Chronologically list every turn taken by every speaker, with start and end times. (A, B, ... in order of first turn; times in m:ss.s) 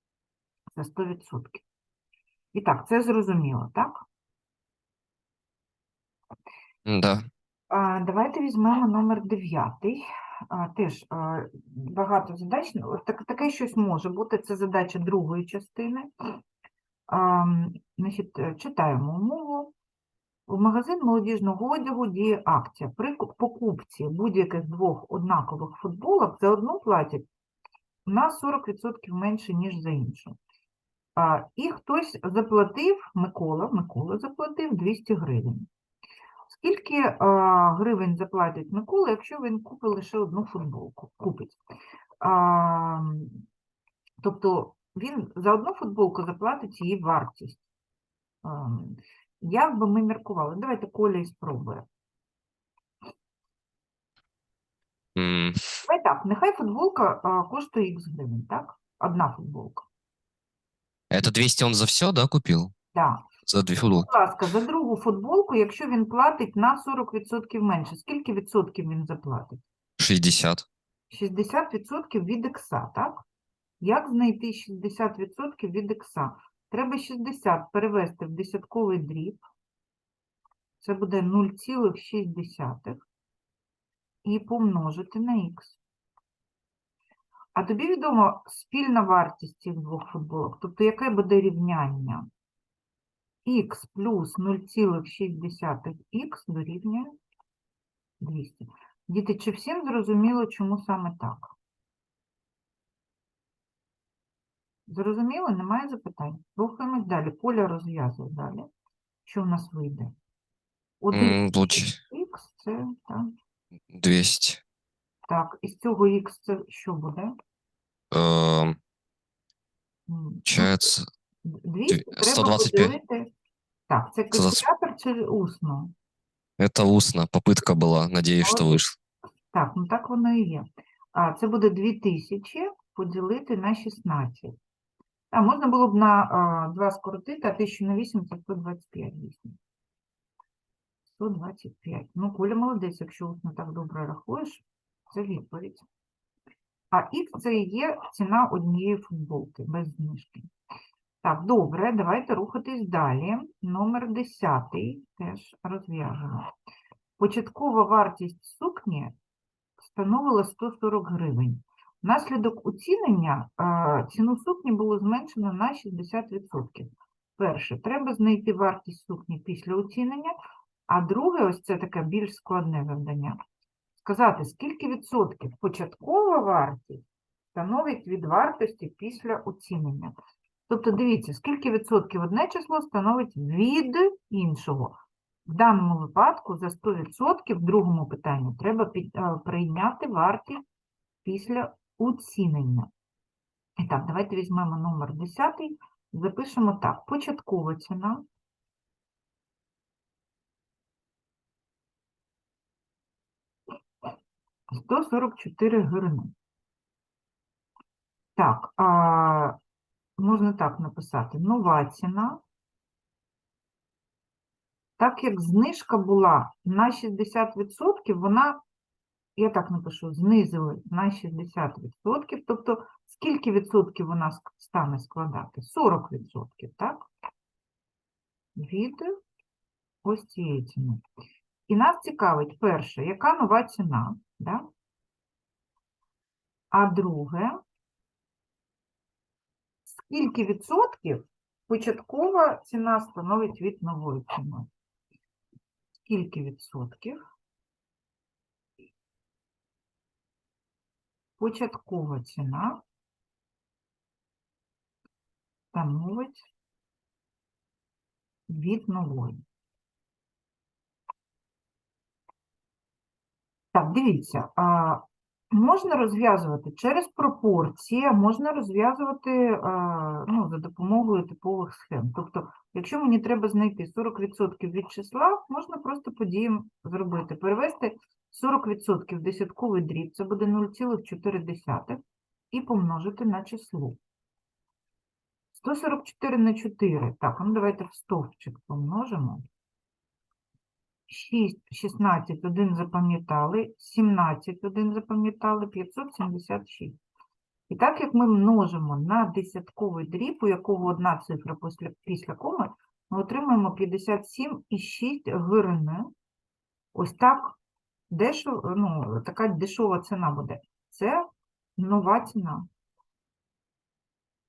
0:00.8-0:01.6 A
0:02.5-0:04.0 A
0:06.8-0:07.2 B
0:07.7-0:16.1 A
0:17.1-0:19.7 A
0:20.5-0:27.2 A
0:28.0-0:30.4 A
0:31.2-0:35.7 A
0:36.5-0:41.6 A
0:42.2-0:43.4 A
0:44.2-0:47.6 A
0:48.4-0:51.8 A
0:55.2-0:55.6 B
0:55.8-0:59.8 A
1:01.1-1:02.7 B
1:02.9-1:03.2 A
1:03.4-1:04.1 B
1:03.9-1:09.6 A
1:10.0-1:10.6 B
1:11.1-1:13.2 A
1:13.8-1:19.4 A
1:20.8-1:23.0 A
1:24.2-1:25.8 A
1:27.5-1:32.3 A
1:33.4-1:37.1 A
1:38.2-1:41.5 A
1:44.9-1:48.6 A
1:49.2-1:50.1 A
1:51.0-1:53.3 A
1:51.1-1:52.0 B
1:53.9-1:54.6 B
1:55.3-1:57.3 A
1:58.1-1:58.8 B
2:00.1-2:00.7 A
2:00.4-2:01.0 B
2:01.4-2:03.3 A
2:01.9-2:02.9 B
2:03.9-2:05.9 A
2:04.3-2:04.6 B
2:06.6-2:09.0 B
2:08.4-2:08.7 A
2:09.5-2:14.5 A
2:15.3-2:19.6 A
2:21.1-2:25.8 A
2:26.9-2:30.5 A
2:31.2-2:36.5 A
2:37.2-2:39.1 A
2:39.8-2:50.3 A
2:50.9-2:53.4 A
2:54.0-3:00.1 A
3:00.7-3:05.0 A
3:05.5-3:10.6 A
3:11.2-3:12.9 A
3:13.8-3:18.2 A
3:24.7-3:26.3 A
3:28.4-3:29.6 A
3:30.2-3:32.4 A
3:35.0-3:38.6 A
3:39.4-3:47.1 A
3:48.6-3:49.2 A
3:50.0-3:51.0 A
3:51.7-3:54.7 A
3:56.7-3:57.6 A
3:59.8-4:04.7 A
4:06.1-4:07.2 A
4:11.4-4:12.8 A
4:15.7-4:16.5 A
4:18.5-4:19.4 A
4:23.7-4:44.0 A
4:45.5-4:49.4 A
4:51.1-4:57.0 A
4:57.7-5:06.1 A
5:06.9-5:07.6 A
5:08.1-5:11.2 A
5:11.8-5:12.7 A